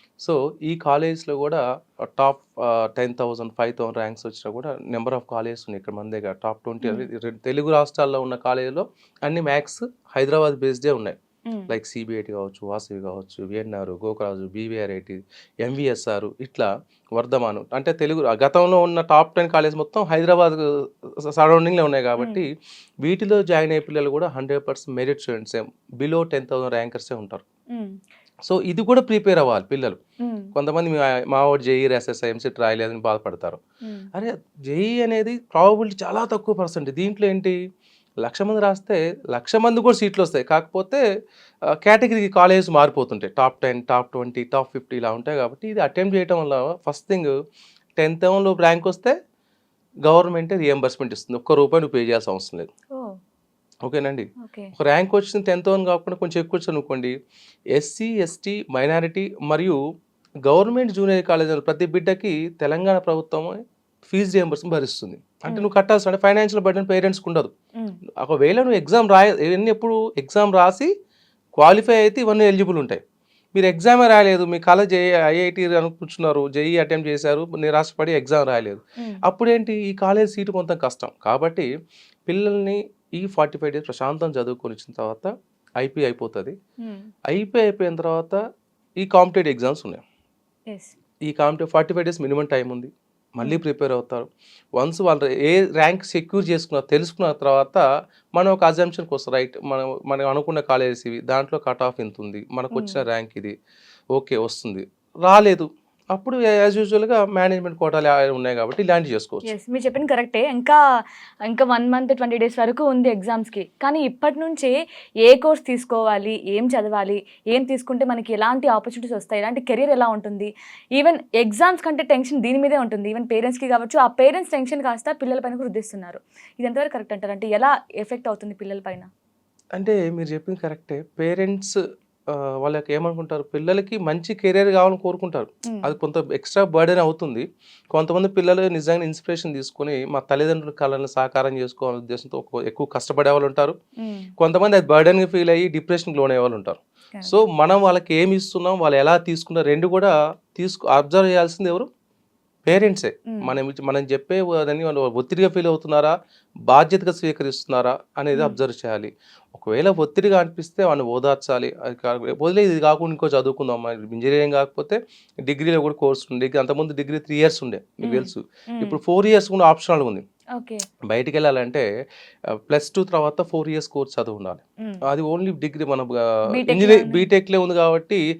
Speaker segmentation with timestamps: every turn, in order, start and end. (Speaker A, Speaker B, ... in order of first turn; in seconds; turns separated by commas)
Speaker A: 0.2-11.2, Speaker B: 6.8-7.1, Speaker A: 11.7-22.5, Speaker A: 23.0-27.4, Speaker B: 27.7-28.0, Speaker A: 28.5-30.0, Speaker B: 30.2-30.5, Speaker A: 30.5-33.6, Speaker B: 33.8-34.1, Speaker A: 34.1-37.6, Speaker A: 38.2-41.0, Speaker A: 41.8-47.3, Speaker A: 48.0-49.1, Speaker A: 50.0-52.7, Speaker A: 53.8-57.1, Speaker B: 54.4-54.7, Speaker A: 57.7-59.8, Speaker A: 60.5-67.5, Speaker A: 68.2-70.9, Speaker A: 71.6-73.0, Speaker A: 73.5-81.7, Speaker A: 82.3-86.5, Speaker B: 86.8-87.1, Speaker A: 87.3-88.4, Speaker A: 89.0-90.0, Speaker B: 90.7-90.9, Speaker A: 91.3-97.8, Speaker A: 98.4-103.5, Speaker B: 102.7-103.0, Speaker A: 104.2-109.5, Speaker B: 109.5-110.8, Speaker B: 111.5-114.7, Speaker B: 115.2-129.1, Speaker A: 129.8-131.8, Speaker A: 132.3-143.7, Speaker B: 135.7-135.9, Speaker B: 144.0-144.3, Speaker A: 144.4-151.9, Speaker A: 152.7-156.1, Speaker B: 153.3-153.6, Speaker A: 156.7-170.2, Speaker B: 168.0-169.0, Speaker B: 170.6-170.8, Speaker A: 171.1-171.8, Speaker A: 172.6-178.2, Speaker B: 176.5-177.3